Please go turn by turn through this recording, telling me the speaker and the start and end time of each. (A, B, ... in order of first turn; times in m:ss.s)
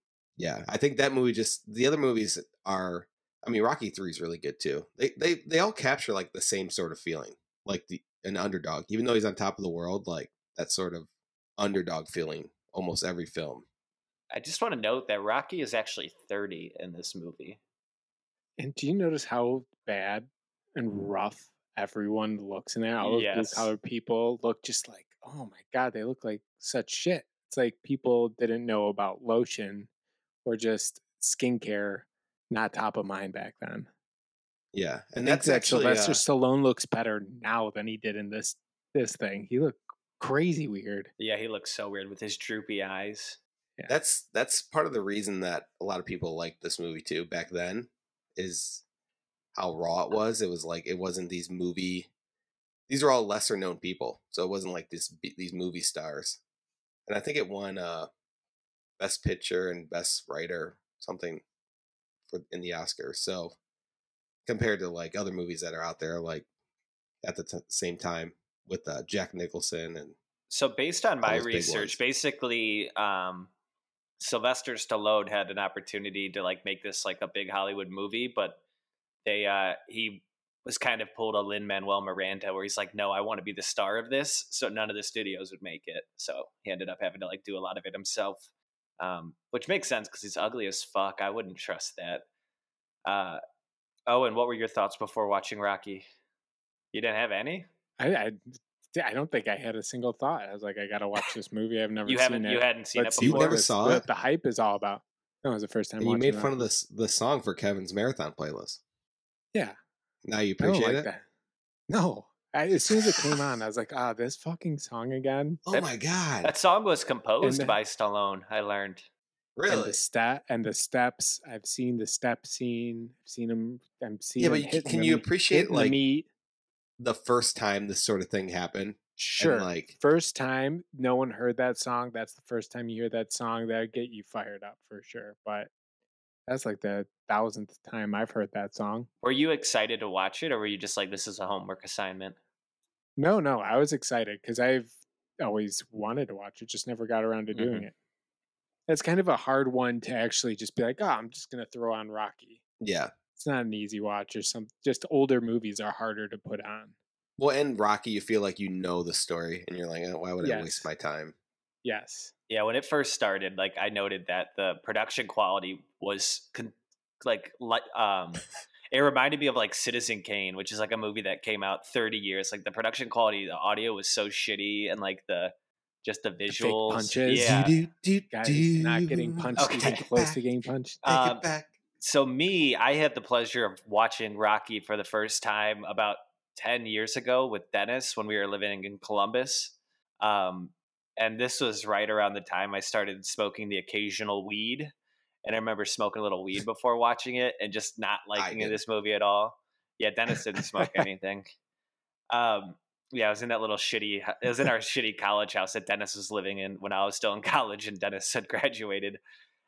0:00.4-0:13.6 A
0:14.3-0:17.6 B
0:18.6-0:29.9 C
0:23.0-0:23.7 B
0:30.4-0:33.9 C
0:34.7-0:36.2 A
0:35.2-0:41.1 C
0:41.2-0:43.4 B
0:43.9-0:48.8 A
0:49.5-0:52.1 A
0:52.9-0:56.4 A
0:57.1-0:58.1 A
0:59.0-1:01.4 A
1:02.3-1:03.6 A
1:04.4-1:06.4 A
1:07.2-1:10.2 A
1:10.5-1:13.5 B
1:11.2-1:12.0 A
1:14.2-1:18.6 B
1:19.2-1:28.5 B
1:29.0-1:32.2 B
1:33.0-1:33.4 B
1:34.1-1:36.0 B
1:36.9-1:37.7 B
1:38.0-1:46.7 C
1:42.0-1:43.6 B
1:43.2-1:44.0 A
1:46.0-1:48.8 A
1:50.2-1:51.1 A
1:50.6-1:51.2 C
1:51.9-1:55.6 C
1:52.9-1:53.4 A
1:55.6-1:56.5 A
1:56.4-1:59.0 B
1:57.4-1:57.8 C
1:59.6-2:00.0 A
1:59.7-2:06.3 C
2:04.4-2:06.0 A
2:07.0-2:09.9 A
2:09.2-2:15.7 C
2:16.5-2:19.1 C
2:19.2-2:22.4 B
2:23.2-2:27.9 C
2:27.5-2:27.9 B
2:28.9-2:32.6 C
2:32.8-2:33.1 A
2:33.4-2:36.9 C
2:37.4-2:41.3 A
2:40.4-2:40.9 C
2:41.8-2:42.3 C
2:42.5-2:57.8 B
2:56.5-2:57.6 C
2:57.3-3:00.4 A
2:58.3-3:01.0 C
2:59.6-3:00.0 B
3:01.0-3:01.4 B
3:01.0-3:01.7 A
3:02.0-3:14.9 B
3:15.4-3:21.5 B
3:18.4-3:18.8 A
3:22.3-3:29.2 B